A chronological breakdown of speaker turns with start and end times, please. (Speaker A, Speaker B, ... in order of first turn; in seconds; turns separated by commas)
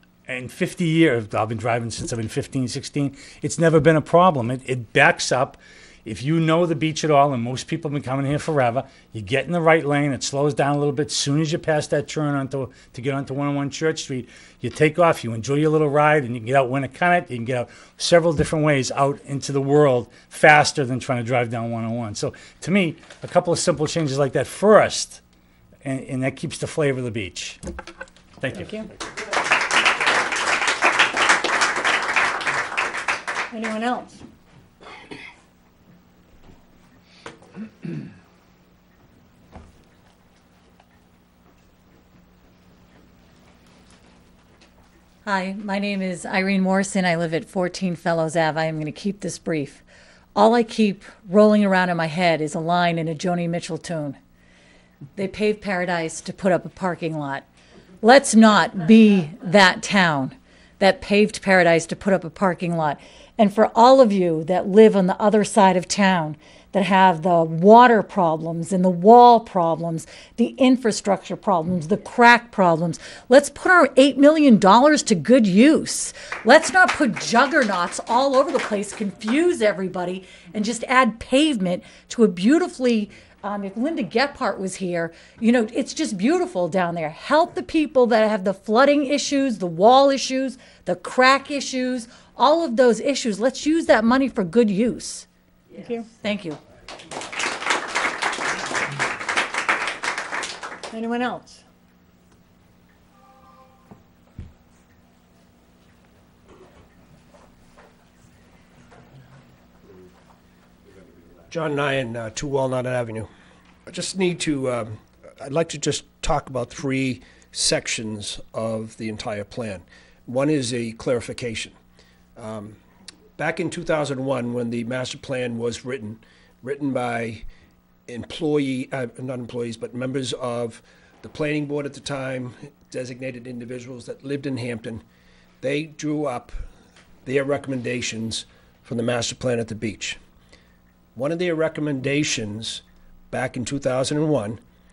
Speaker A: 0.3-25.2, Speaker A: 25.8-27.6, Speaker A: 28.4-28.8, Speaker B: 28.5-28.9, Speaker B: 33.5-34.2, Speaker C: 45.2-49.8, Speaker C: 50.3-54.2, Speaker C: 55.1-57.4, Speaker C: 58.0-95.3, Speaker B: 95.8-96.1, Speaker C: 96.1-96.6, Speaker B: 100.9-101.6, Speaker D: 111.5-113.3, Speaker D: 113.9-121.7, Speaker D: 122.3-122.8, Speaker D: 123.4-127.5, Speaker D: 128.1-135.0, Speaker D: 135.6-136.6, Speaker D: 137.2-140.2, Speaker D: 141.1-144.6